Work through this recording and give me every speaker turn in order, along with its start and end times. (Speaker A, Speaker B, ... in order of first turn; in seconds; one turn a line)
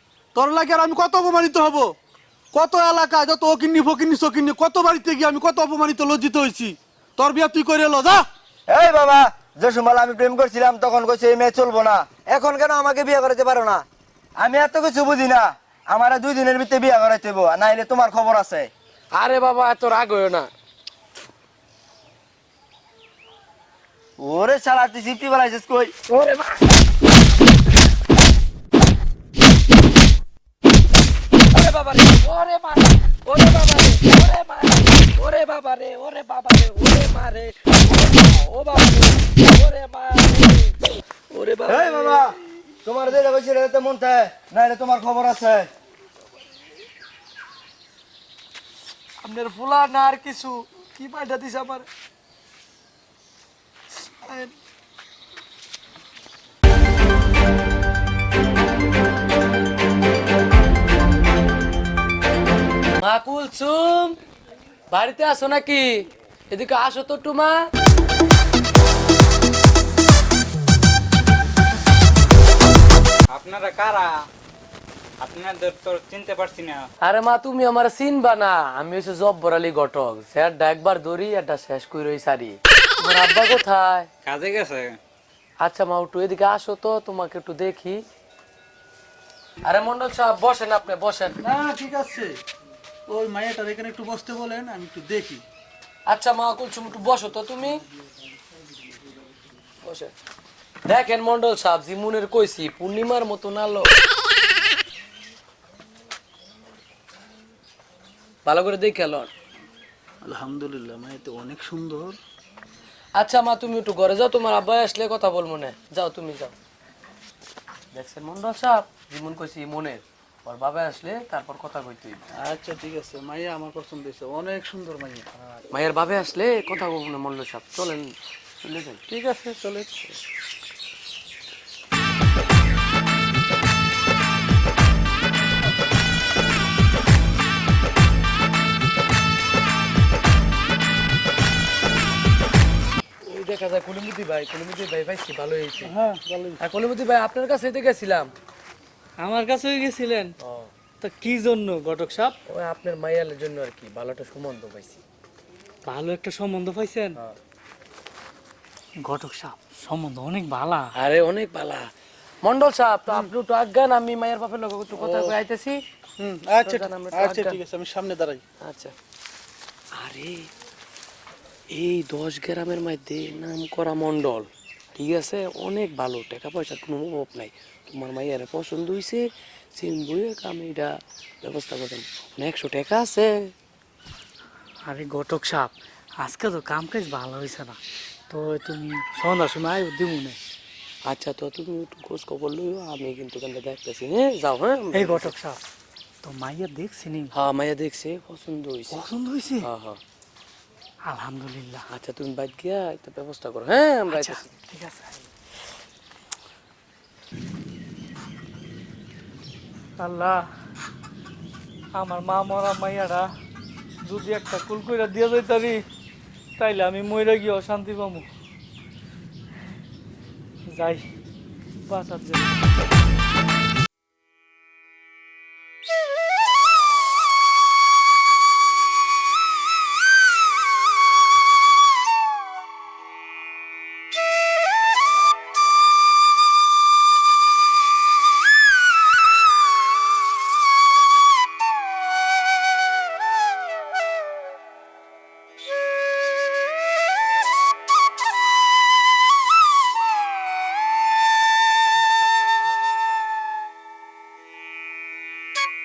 Speaker A: 0.3-1.9
Speaker A: 2.5-8.3
Speaker B: 8.7-13.8
Speaker B: 14.4-18.7
Speaker C: 19.1-20.5
Speaker B: 24.2-25.9
Speaker C: 26.1-26.6
Speaker C: 31.5-40.8
Speaker C: 41.3-42.2
Speaker B: 41.7-45.7
Speaker C: 49.2-51.9
Speaker C: 54.2-54.5
Speaker C: 63.0-64.2
Speaker C: 64.9-67.6
Speaker D: 73.3-74.2
Speaker D: 75.2-76.9
Speaker C: 77.0-84.1
Speaker D: 84.2-85.0
Speaker C: 85.6-88.0
Speaker C: 89.6-91.4
Speaker A: 91.4-92.3
Speaker A: 93.1-95.4
Speaker C: 96.1-97.8
Speaker C: 99.8-100.1
Speaker C: 100.8-103.9
Speaker C: 108.5-109.3
Speaker A: 110.2-112.2
Speaker C: 113.2-116.5
Speaker C: 117.9-122.2
Speaker A: 122.4-125.2
Speaker C: 125.7-129.1
Speaker A: 129.3-129.8
Speaker C: 143.3-145.9
Speaker A: 145.9-146.6
Speaker C: 146.6-148.3
Speaker E: 149.2-150.3
Speaker C: 150.4-150.7
Speaker E: 151.0-152.3
Speaker C: 152.5-155.0
Speaker E: 155.8-157.2
Speaker E: 159.0-160.9
Speaker C: 160.9-161.8
Speaker C: 162.4-165.8
Speaker A: 164.9-165.3
Speaker A: 166.2-168.4
Speaker C: 166.6-167.6
Speaker C: 168.6-168.9
Speaker C: 170.0-170.5
Speaker C: 171.7-183.5
Speaker E: 184.9-187.8
Speaker E: 188.3-190.4
Speaker C: 191.0-195.3
Speaker E: 194.9-195.6
Speaker E: 196.2-197.3
Speaker C: 197.3-199.0
Speaker E: 198.9-199.7
Speaker C: 199.6-200.0
Speaker E: 201.1-201.8
Speaker C: 201.9-204.5
Speaker E: 204.1-205.2
Speaker E: 210.0-210.4
Speaker E: 212.0-213.3
Speaker E: 214.0-215.8
Speaker E: 216.6-218.2
Speaker E: 220.7-221.0
Speaker E: 221.9-222.5